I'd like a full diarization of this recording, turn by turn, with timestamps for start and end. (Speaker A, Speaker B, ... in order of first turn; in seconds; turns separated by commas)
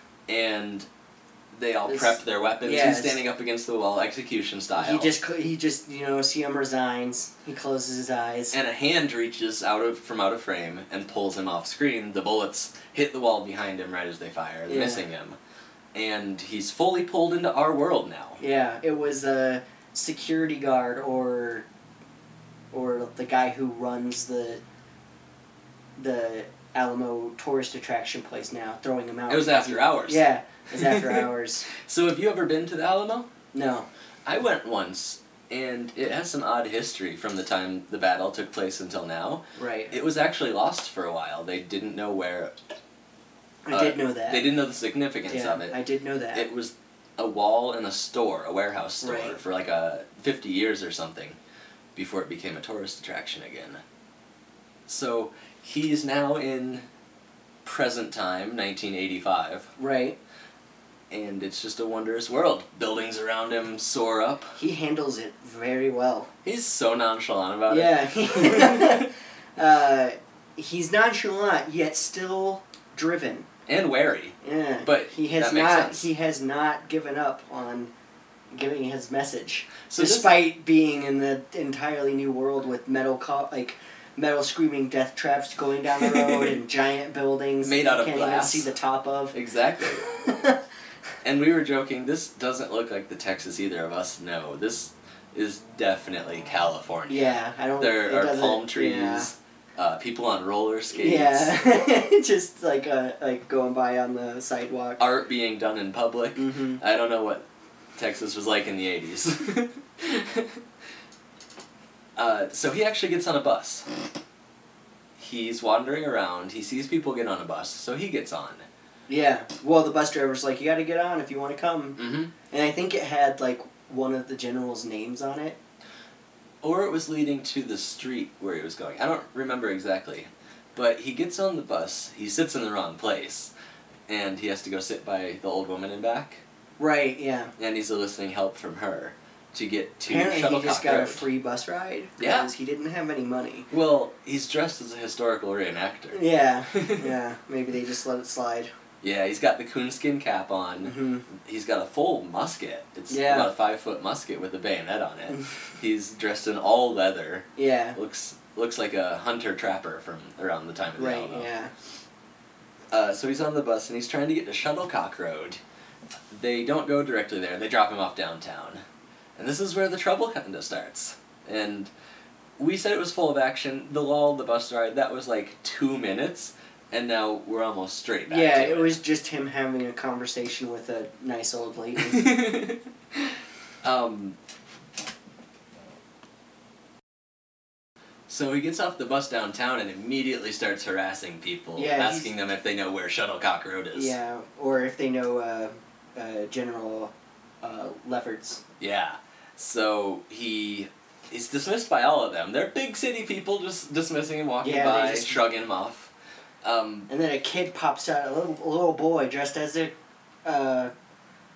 Speaker A: 0.3-0.9, Speaker A: 1.5-5.1, Speaker B: 1.9-3.2, Speaker B: 4.8-8.6, Speaker A: 8.5-15.4, Speaker B: 14.7-15.0, Speaker A: 15.9-18.4, Speaker B: 18.4-21.7, Speaker B: 22.7-24.6, Speaker B: 26.0-31.6, Speaker A: 29.3-33.3, Speaker B: 33.5-33.9, Speaker A: 34.2-42.5, Speaker B: 39.5-39.9, Speaker B: 43.6-44.5, Speaker A: 43.7-45.8, Speaker B: 45.3-46.5, Speaker A: 46.3-51.4, Speaker B: 49.0-49.4, Speaker A: 52.0-53.8, Speaker A: 54.9-56.9, Speaker A: 57.6-59.7, Speaker B: 59.8-60.2, Speaker A: 61.1-64.6, Speaker B: 64.6-66.3, Speaker A: 66.4-69.1, Speaker B: 67.7-73.5, Speaker A: 73.7-76.1, Speaker B: 74.4-77.9, Speaker B: 78.5-90.6, Speaker A: 79.9-80.4, Speaker A: 86.0-86.6, Speaker A: 87.6-88.7, Speaker A: 89.3-90.0, Speaker A: 91.2-101.5, Speaker B: 97.1-99.3, Speaker B: 100.9-105.0, Speaker A: 105.0-110.6, Speaker B: 106.3-106.8, Speaker A: 112.2-113.9, Speaker A: 115.2-118.6, Speaker B: 119.1-125.6, Speaker A: 122.0-122.3, Speaker A: 126.6-133.5, Speaker A: 134.1-136.4, Speaker B: 136.8-137.5, Speaker A: 137.6-141.2, Speaker B: 140.1-143.7, Speaker A: 142.2-142.5, Speaker A: 143.7-147.1, Speaker B: 146.1-148.7, Speaker A: 149.0-161.5, Speaker B: 150.8-151.2, Speaker B: 153.1-153.5, Speaker B: 157.6-158.0, Speaker B: 161.0-161.7, Speaker A: 162.9-165.6, Speaker A: 166.3-168.8, Speaker A: 169.3-171.9, Speaker A: 172.6-179.0, Speaker B: 178.3-182.3, Speaker A: 182.0-184.4, Speaker A: 188.3-194.2, Speaker B: 191.8-192.3, Speaker B: 193.9-198.6, Speaker A: 198.8-206.1, Speaker B: 204.6-205.4, Speaker A: 206.6-207.1, Speaker B: 207.1-210.9